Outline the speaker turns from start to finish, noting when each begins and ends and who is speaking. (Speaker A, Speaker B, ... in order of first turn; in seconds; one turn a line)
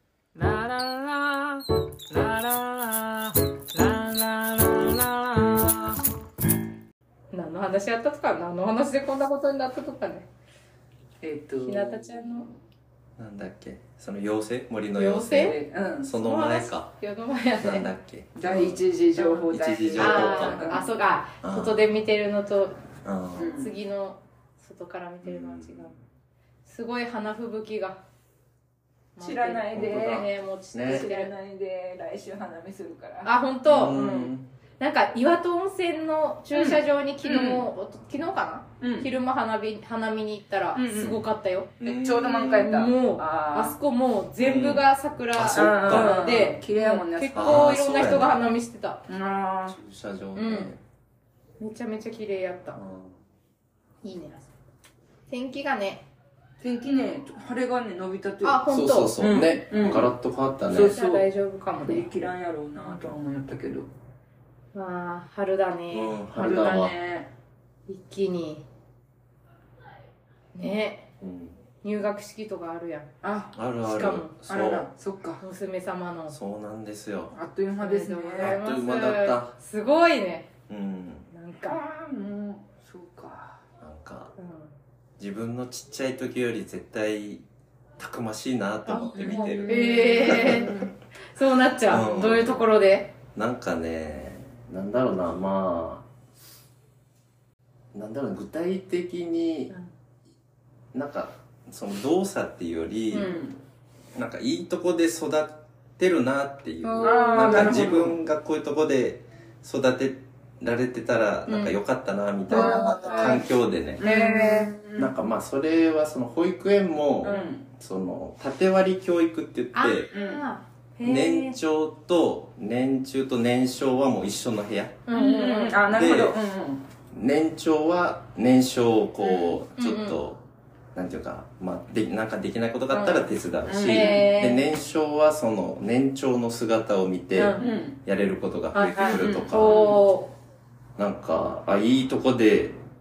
Speaker A: 0.4-5.8
Speaker B: 7.3-10.3
Speaker C: 11.2-11.9
Speaker B: 11.6-12.5
Speaker D: 13.2-17.0
Speaker B: 14.9-15.6
Speaker C: 15.3-16.1
Speaker B: 16.1-17.9
Speaker D: 17.6-18.8
Speaker C: 18.4-20.8
Speaker B: 19.2-22.8
Speaker D: 19.5-20.8
Speaker D: 21.4-21.9
Speaker D: 23.0-23.6
Speaker C: 23.4-23.7
Speaker B: 23.6-25.9
Speaker D: 25.2-26.0
Speaker B: 26.7-28.0
Speaker B: 29.2-31.3
Speaker C: 29.2-30.3
Speaker D: 29.7-31.1
Speaker C: 30.8-33.3
Speaker B: 33.2-41.7
Speaker D: 33.6-34.5
Speaker C: 36.5-37.7
Speaker C: 38.8-39.1
Speaker C: 40.8-41.2
Speaker D: 41.8-42.7
Speaker C: 41.8-43.8
Speaker B: 42.4-49.0
Speaker D: 44.4-46.2
Speaker C: 45.4-47.7
Speaker D: 47.3-48.4
Speaker C: 49.1-49.8
Speaker D: 49.7-50.8
Speaker B: 50.4-50.7
Speaker B: 51.6-52.8
Speaker D: 52.7-53.2
Speaker B: 54.0-54.5
Speaker B: 55.3-56.0
Speaker C: 56.6-58.6
Speaker B: 58.4-59.2
Speaker D: 58.7-61.0
Speaker C: 59.2-60.1
Speaker C: 60.7-61.3
Speaker B: 60.9-62.1
Speaker C: 61.8-63.9
Speaker B: 62.8-63.1
Speaker B: 64.7-66.9
Speaker D: 65.9-67.0
Speaker C: 66.4-67.3
Speaker B: 67.9-68.6
Speaker B: 70.5-71.1
Speaker D: 71.2-71.6
Speaker B: 71.8-73.1
Speaker C: 73.2-73.6
Speaker D: 73.5-74.9
Speaker B: 73.8-74.3
Speaker C: 74.5-75.4
Speaker B: 75.4-76.4
Speaker D: 76.3-77.4
Speaker C: 77.3-78.6
Speaker B: 77.8-80.5
Speaker D: 78.1-79.5
Speaker D: 80.7-81.3
Speaker B: 81.3-81.8
Speaker C: 81.7-83.6
Speaker D: 83.8-84.3
Speaker B: 84.4-84.7
Speaker D: 85.2-87.4
Speaker D: 88.0-90.8
Speaker B: 88.9-90.8
Speaker C: 89.1-90.9
Speaker B: 91.3-93.1
Speaker D: 91.9-92.7
Speaker D: 93.3-96.1
Speaker D: 97.9-99.7
Speaker D: 100.9-103.3
Speaker B: 103.1-103.4
Speaker C: 103.1-103.6
Speaker D: 104.2-114.1
Speaker B: 106.8-107.8
Speaker C: 107.0-108.2
Speaker B: 111.5-111.8
Speaker C: 112.5-113.4
Speaker B: 112.5-113.5
Speaker C: 114.0-115.1
Speaker B: 114.0-114.7
Speaker D: 115.0-120.1
Speaker C: 117.2-117.7
Speaker B: 119.7-121.6
Speaker C: 120.1-120.4
Speaker D: 121.0-125.0
Speaker B: 125.1-125.8
Speaker C: 125.1-126.8
Speaker D: 125.9-126.4
Speaker D: 127.1-130.4
Speaker C: 129.2-129.6
Speaker B: 129.8-130.2
Speaker D: 130.9-140.0
Speaker B: 132.9-134.7
Speaker C: 133.7-134.3
Speaker B: 137.4-137.7
Speaker C: 137.6-138.0
Speaker B: 138.7-140.3
Speaker C: 138.9-140.0
Speaker D: 141.0-142.8